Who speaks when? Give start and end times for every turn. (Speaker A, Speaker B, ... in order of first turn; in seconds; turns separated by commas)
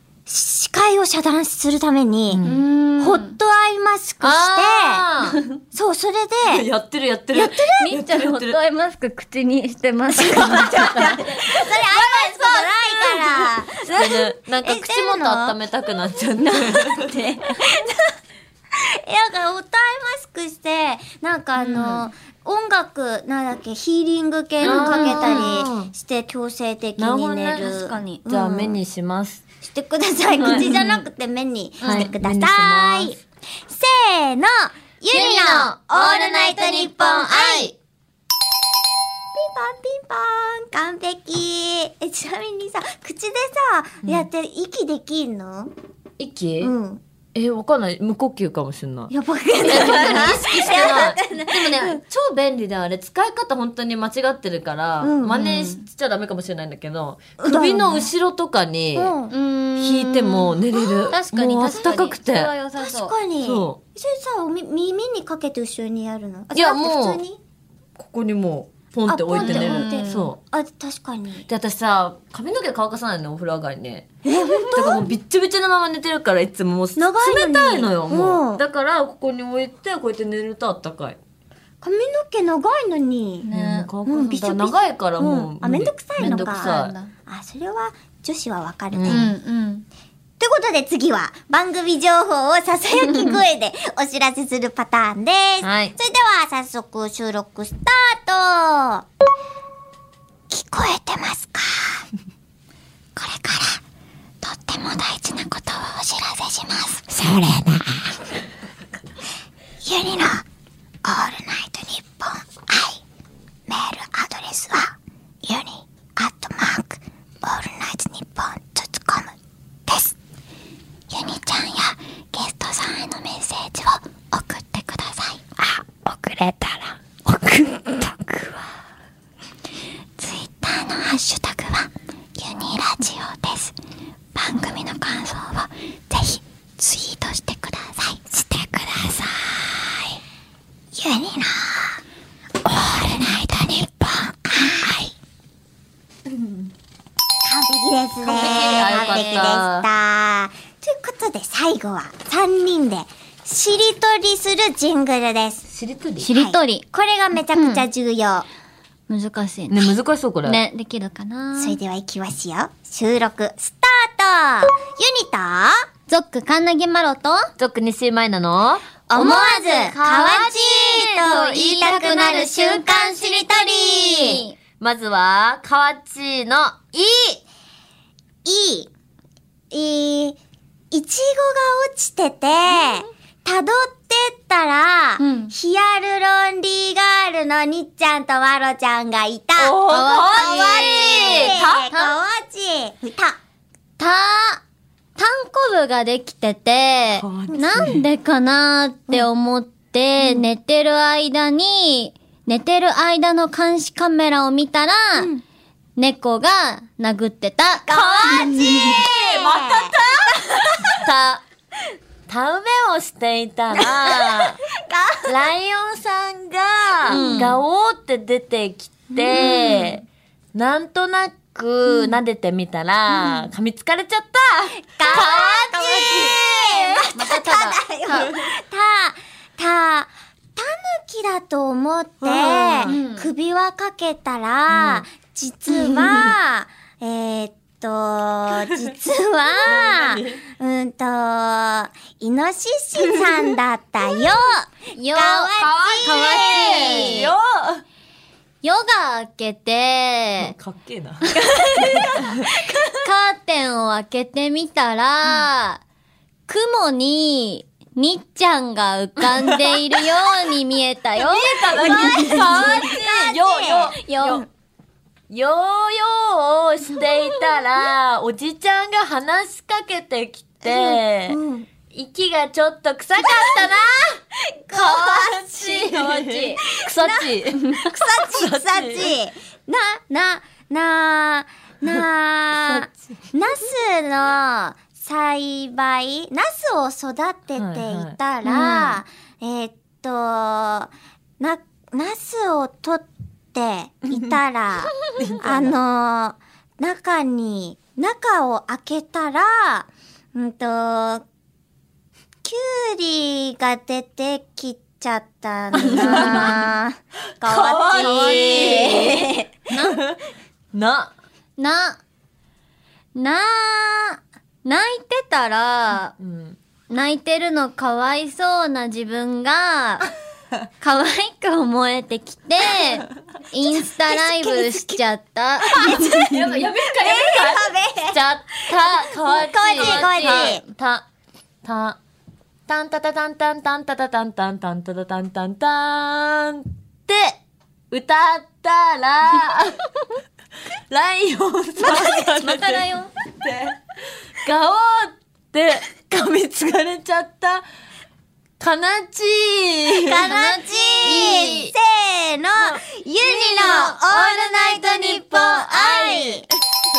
Speaker A: 0.2-2.4, Speaker B: 2.3-2.6, Speaker C: 2.4-3.4, Speaker A: 3.0-5.0, Speaker B: 4.2-5.4, Speaker A: 5.7-6.7, Speaker B: 6.5-8.6, Speaker A: 7.3-7.8, Speaker C: 7.5-11.4, Speaker B: 10.2-17.1, Speaker A: 11.3-15.6, Speaker A: 16.4-17.9, Speaker C: 16.9-17.4, Speaker A: 18.8-28.8, Speaker C: 21.6-22.1, Speaker C: 24.6-25.6, Speaker B: 24.6-25.9, Speaker B: 27.0-27.7, Speaker C: 27.6-28.2, Speaker B: 28.3-29.4, Speaker A: 29.6-37.7, Speaker B: 30.4-30.8, Speaker C: 30.4-31.0, Speaker C: 31.8-32.1, Speaker B: 31.8-33.2, Speaker B: 35.1-37.7, Speaker C: 35.2-35.7, Speaker A: 39.3-45.7, Speaker B: 46.2-46.7, Speaker A: 46.6-47.0, Speaker B: 47.3-49.1, Speaker A: 49.1-52.0, Speaker B: 49.6-59.1, Speaker A: 55.0-55.4, Speaker C: 55.3-55.8, Speaker A: 57.4-58.1, Speaker A: 58.9-59.3, Speaker C: 59.3-63.1, Speaker B: 59.8-62.5, Speaker A: 60.7-61.2, Speaker A: 62.8-67.4, Speaker B: 63.4-63.8, Speaker B: 66.5-67.2, Speaker B: 68.0-70.4, Speaker A: 69.1-71.5, Speaker C: 69.4-70.3, Speaker B: 71.5-74.1, Speaker A: 74.2-75.1, Speaker B: 74.7-81.2, Speaker A: 77.0-78.6, Speaker A: 81.8-83.5, Speaker C: 83.4-83.9, Speaker B: 83.5-86.9, Speaker A: 84.0-86.8, Speaker C: 86.2-87.1, Speaker A: 87.3-89.3, Speaker B: 88.9-89.3, Speaker C: 89.1-89.8, Speaker A: 90.4-99.0, Speaker B: 95.6-95.9, Speaker A: 100.5-102.0, Speaker A: 103.1-103.8, Speaker A: 104.4-108.2, Speaker A: 109.8-110.4, Speaker A: 111.0-113.0, Speaker A: 113.7-119.3, Speaker A: 119.9-120.1, Speaker A: 121.1-128.6, Speaker A: 130.2-133.7, Speaker A: 134.3-140.2, Speaker A: 140.9-142.0, Speaker A: 142.6-145.1, Speaker A: 147.4-155.6, Speaker B: 148.2-149.9, Speaker C: 148.6-149.5, Speaker B: 155.7-156.3, Speaker C: 156.2-156.8, Speaker A: 156.3-158.4, Speaker C: 157.5-157.8, Speaker C: 159.1-161.8, Speaker B: 159.7-160.6, Speaker A: 161.6-165.9, Speaker C: 166.1-167.5, Speaker B: 167.6-172.1, Speaker A: 169.1-174.4, Speaker C: 169.1-170.0, Speaker C: 171.2-174.5, Speaker B: 174.8-177.0, Speaker A: 177.0-177.4, Speaker A: 178.4-178.9, Speaker A: 179.7-180.4, Speaker A: 180.9-193.4, Speaker C: 185.2-185.5, Speaker B: 189.6-191.9, Speaker C: 190.1-192.2, Speaker C: 194.0-194.6, Speaker C: 195.2-205.3, Speaker B: 197.2-198.1, Speaker A: 200.2-200.4, Speaker C: 206.0-207.9, Speaker A: 207.9-209.9, Speaker B: 207.9-211.4, Speaker B: 212.3-214.6, Speaker A: 213.7-215.3, Speaker B: 215.3-226.5, Speaker C: 217.1-217.6, Speaker A: 217.1-217.5, Speaker A: 219.1-220.0, Speaker A: 221.9-222.2, Speaker A: 223.1-223.5, Speaker A: 224.9-247.2, Speaker C: 227.1-228.3, Speaker B: 232.2-232.9, Speaker C: 232.8-233.3, Speaker B: 234.7-235.0, Speaker B: 235.7-236.3, Speaker B: 239.5-240.4, Speaker B: 243.0-243.3, Speaker C: 244.9-247.3, Speaker B: 245.6-247.8, Speaker C: 248.6-250.5, Speaker B: 250.4-252.7, Speaker C: 251.3-252.2, Speaker C: 252.9-255.8, Speaker C: 256.5-262.9, Speaker B: 259.2-260.1, Speaker B: 261.1-264.4, Speaker A: 261.8-263.9, Speaker C: 263.9-264.4, Speaker B: 265.3-271.4, Speaker C: 267.0-267.4, Speaker A: 270.6-271.7, Speaker B: 271.9-279.1, Speaker A: 273.2-274.1, Speaker A: 274.7-275.4, Speaker C: 275.2-276.6, Speaker A: 276.6-301.2, Speaker B: 282.6-282.9, Speaker B: 287.6-288.1, Speaker C: 288.4-289.0, Speaker B: 295.2-295.7, Speaker A: 302.4-309.5, Speaker B: 305.8-306.6, Speaker C: 305.8-306.7, Speaker B: 307.4-310.2, Speaker C: 307.9-310.0, Speaker B: 310.7-311.1, Speaker C: 311.6-312.0, Speaker C: 313.1-316.1, Speaker B: 316.2-316.6, Speaker C: 316.9-320.1, Speaker C: 320.8-326.6, Speaker A: 323.6-325.0, Speaker A: 325.7-326.4, Speaker B: 325.8-331.1, Speaker A: 326.9-328.6, Speaker A: 329.2-330.6, Speaker C: 329.3-330.6, Speaker B: 331.6-332.0, Speaker B: 332.7-337.4, Speaker B: 337.9-339.8, Speaker B: 340.9-342.9, Speaker C: 341.8-343.1, Speaker B: 343.4-343.8, Speaker B: 344.4-347.6, Speaker B: 348.6-350.3, Speaker A: 350.1-356.5, Speaker C: 350.2-351.4, Speaker B: 351.0-351.7, Speaker B: 352.6-356.4